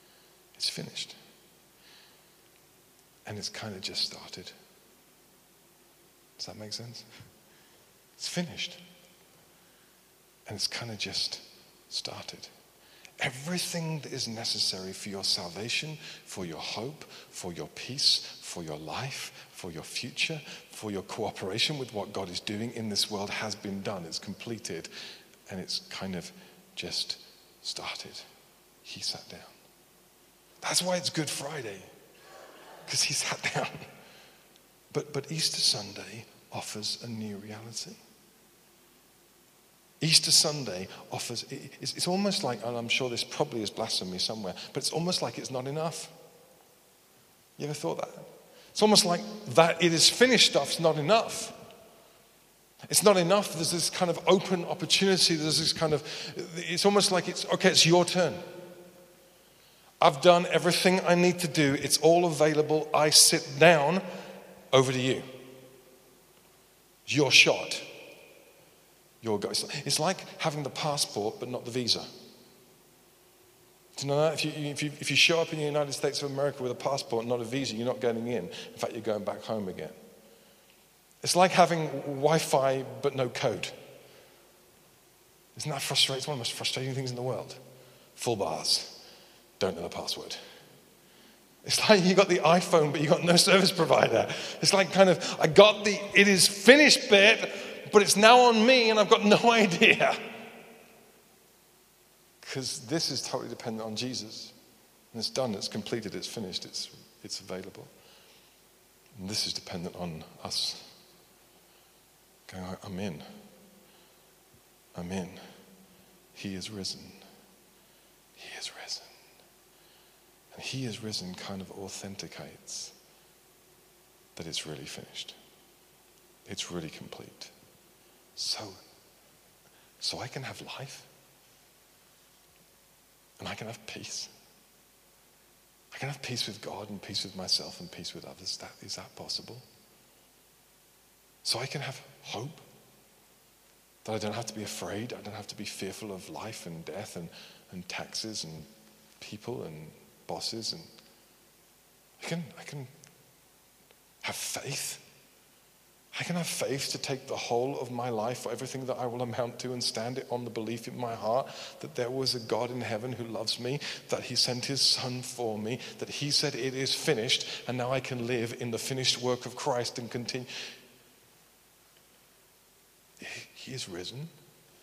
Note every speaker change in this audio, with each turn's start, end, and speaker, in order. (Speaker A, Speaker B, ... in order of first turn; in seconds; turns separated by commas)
Speaker A: 0.5-1.2, Speaker A: 3.2-4.5, Speaker A: 6.4-7.1, Speaker A: 8.2-8.8, Speaker A: 10.5-12.5, Speaker A: 13.2-24.9, Speaker A: 25.5-28.2, Speaker A: 28.8-29.6, Speaker A: 30.6-31.9, Speaker A: 32.9-33.9, Speaker A: 34.9-38.0, Speaker A: 40.0-46.1, Speaker A: 47.6-51.5, Speaker A: 52.9-58.4, Speaker A: 60.0-64.1, Speaker A: 64.7-65.3, Speaker A: 67.0-67.9, Speaker A: 69.2-72.1, Speaker A: 74.0-80.0, Speaker A: 81.2-83.7, Speaker A: 85.5-87.6, Speaker A: 88.2-89.0, Speaker A: 89.6-90.4, Speaker A: 91.6-100.2, Speaker A: 102.4-104.5, Speaker A: 105.1-107.9, Speaker A: 109.2-110.9, Speaker A: 112.5-113.3, Speaker A: 114.9-115.4, Speaker A: 116.3-117.2, Speaker A: 118.3-119.1, Speaker A: 120.5-122.9, Speaker A: 124.3-125.3, Speaker A: 126.5-127.5, Speaker A: 128.3-128.8, Speaker A: 130.0-131.1, Speaker A: 133.4-134.3, Speaker A: 135.9-139.7, Speaker A: 141.4-142.6, Speaker A: 144.0-148.7, Speaker A: 149.2-150.9, Speaker A: 152.2-152.9, Speaker A: 154.2-155.0, Speaker A: 156.1-170.5, Speaker A: 173.2-174.3